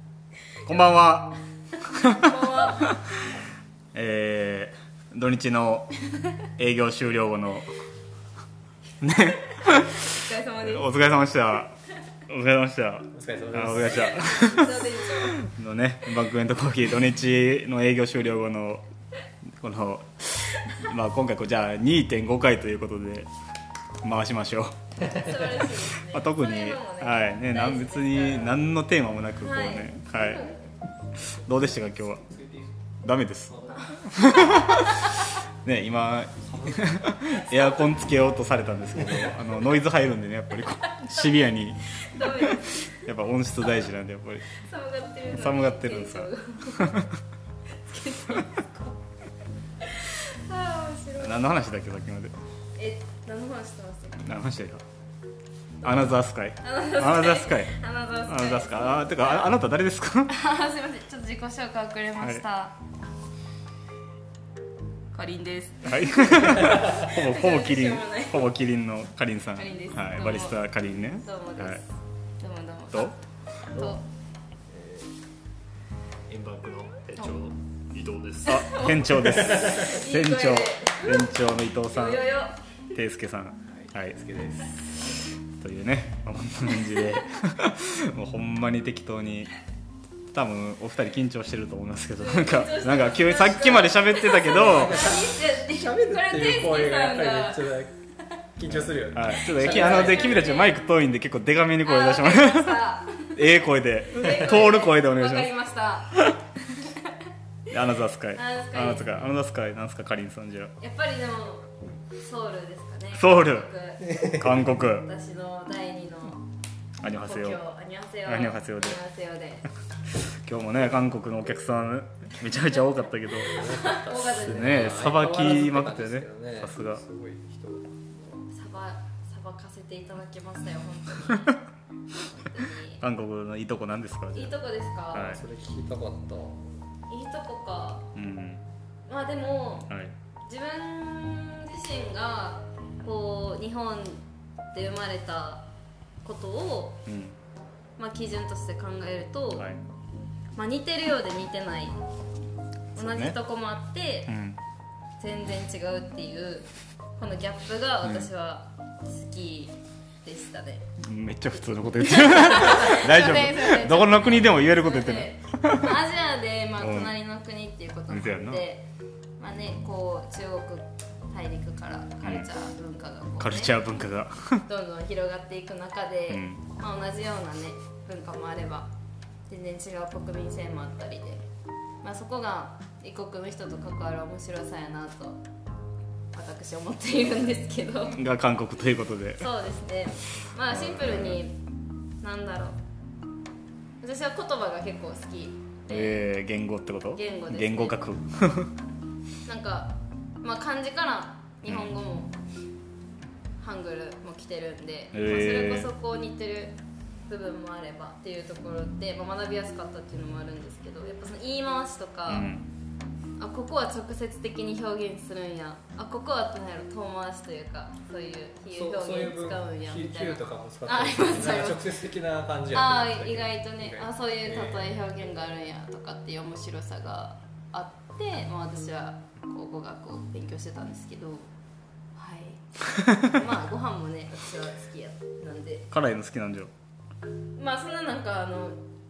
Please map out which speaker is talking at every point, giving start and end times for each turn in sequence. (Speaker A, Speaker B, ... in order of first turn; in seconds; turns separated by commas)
Speaker A: 0.6-3.0, Speaker B: 1.9-3.0, Speaker A: 3.9-7.7, Speaker A: 9.0-18.8, Speaker B: 9.9-10.9, Speaker C: 13.1-14.5, Speaker B: 13.8-15.4, Speaker A: 19.5-23.3, Speaker A: 24.0-30.5, Speaker B: 25.1-28.7, Speaker B: 29.4-30.7, Speaker A: 31.2-32.2, Speaker A: 33.0-35.1, Speaker B: 33.8-35.1, Speaker A: 35.6-44.5, Speaker B: 42.0-42.9, Speaker B: 44.5-46.9, Speaker A: 45.3-47.2, Speaker B: 47.8-48.9, Speaker B: 49.8-51.4, Speaker A: 51.2-52.3, Speaker B: 52.8-54.4, Speaker A: 54.2-54.8, Speaker B: 55.8-59.5, Speaker A: 55.8-60.4, Speaker B: 60.3-62.7, Speaker B: 65.1-68.5, Speaker A: 65.8-71.8, Speaker B: 69.6-70.6, Speaker B: 71.2-71.8, Speaker B: 72.4-73.2, Speaker B: 73.7-74.0, Speaker C: 74.7-75.1, Speaker C: 76.3-78.6, Speaker B: 78.4-82.6, Speaker A: 78.5-82.3, Speaker A: 82.9-84.2, Speaker C: 83.8-84.8, Speaker A: 85.6-89.5, Speaker A: 90.3-95.1, Speaker B: 92.2-97.7, Speaker C: 94.3-97.9, Speaker C: 98.6-100.4, Speaker A: 98.7-105.5, Speaker B: 99.5-100.8, Speaker B: 101.8-103.4, Speaker B: 104.1-107.1, Speaker A: 106.1-106.4, Speaker A: 107.7-110.7, Speaker B: 108.3-109.2, Speaker B: 110.8-116.4, Speaker A: 113.1-115.1, Speaker A: 117.0-117.6, Speaker B: 117.2-119.7, Speaker A: 118.3-119.0, Speaker A: 120.2-123.6, Speaker B: 123.4-125.2, Speaker C: 123.5-127.9, Speaker A: 124.3-127.0, Speaker B: 128.2-131.6, Speaker B: 132.4-133.0, Speaker A: 133.0-134.6, Speaker B: 134.3-135.4, Speaker A: 135.1-135.4, Speaker C: 135.2-136.7, Speaker B: 137.1-138.1, Speaker A: 138.2-138.6, Speaker B: 139.1-139.9, Speaker A: 139.9-140.2, Speaker B: 140.5-144.2, Speaker B: 144.7-145.7, Speaker B: 146.2-147.0, Speaker A: 147.1-147.4, Speaker B: 148.0-149.7, Speaker B: 150.5-152.0, Speaker B: 152.9-154.3, Speaker A: 153.0-153.4, Speaker A: 154.3-154.6, Speaker B: 155.2-160.9, Speaker A: 158.0-158.3, Speaker A: 161.0-166.0, Speaker B: 162.0-168.9, Speaker A: 166.8-167.2, Speaker A: 168.1-168.6, Speaker B: 169.4-173.8, Speaker A: 172.2-172.5, Speaker A: 173.4-174.7, Speaker B: 174.7-178.9, Speaker A: 176.3-176.7, Speaker B: 179.5-181.4, Speaker B: 182.0-185.4, Speaker B: 186.3-188.2, Speaker A: 188.1-189.5, Speaker B: 189.4-191.6, Speaker A: 190.7-191.4, Speaker B: 192.2-192.8, Speaker B: 194.0-196.3, Speaker A: 195.9-198.7, Speaker B: 197.2-198.0, Speaker B: 199.4-202.3, Speaker A: 201.7-202.0, Speaker B: 203.6-212.5, Speaker A: 205.1-205.9, Speaker A: 212.3-212.7, Speaker B: 213.4-221.8, Speaker C: 218.7-225.0, Speaker B: 222.7-231.5, Speaker B: 232.2-235.9, Speaker A: 233.0-233.3, Speaker A: 235.9-236.7, Speaker B: 237.6-238.8